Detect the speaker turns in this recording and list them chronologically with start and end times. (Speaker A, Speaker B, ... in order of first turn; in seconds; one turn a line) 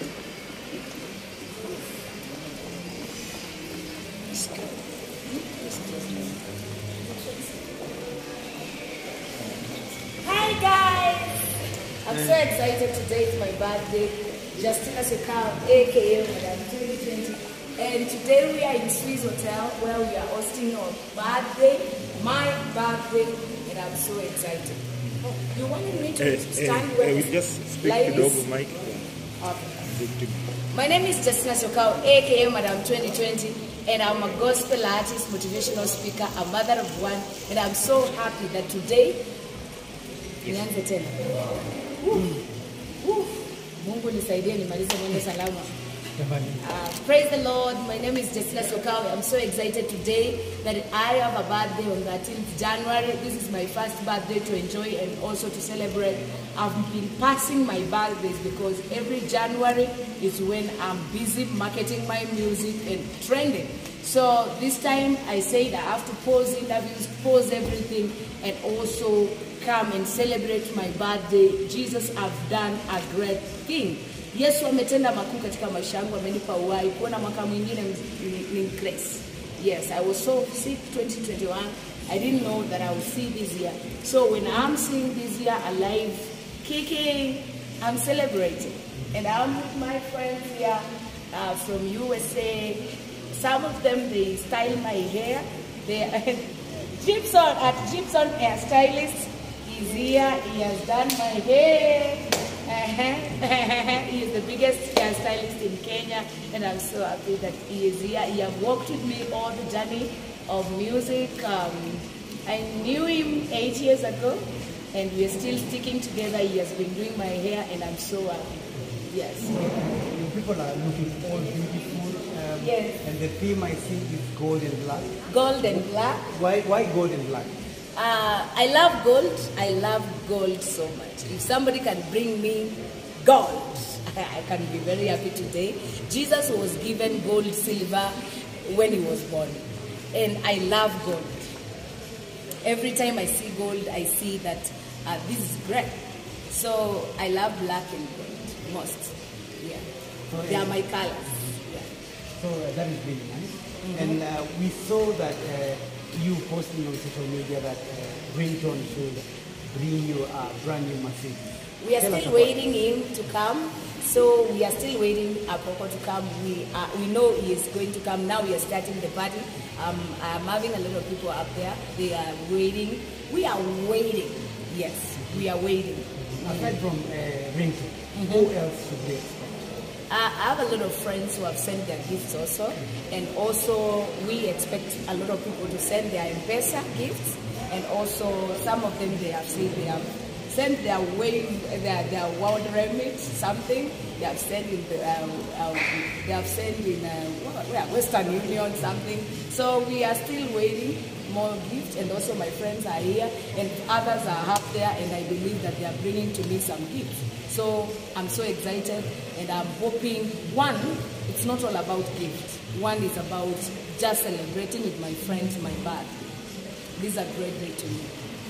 Speaker A: 4.3-6.4
Speaker A: 7.1-7.5
Speaker A: 10.2-11.5
Speaker A: 12.0-24.9
Speaker A: 25.4-28.5
Speaker B: 26.2-29.0
Speaker A: 29.4-29.9
Speaker B: 29.9-30.4
Speaker A: 30.7-39.2
Speaker A: 40.4-41.5
Speaker A: 42.0-42.4
Speaker A: 43.0-45.7
Speaker C: 46.2-46.6
Speaker A: 46.6-119.5
Speaker C: 119.5-125.2
Speaker A: 122.6-123.0
Speaker A: 125.3-126.3
Speaker C: 126.3-127.5
Speaker A: 128.0-141.5
Speaker A: 142.6-149.8
Speaker C: 150.3-150.8
Speaker A: 150.4-151.9
Speaker C: 152.4-162.5
Speaker A: 153.8-154.2
Speaker A: 161.8-176.8
Speaker C: 176.4-179.7
Speaker A: 178.2-178.5
Speaker A: 180.1-216.3
Speaker A: 217.0-218.1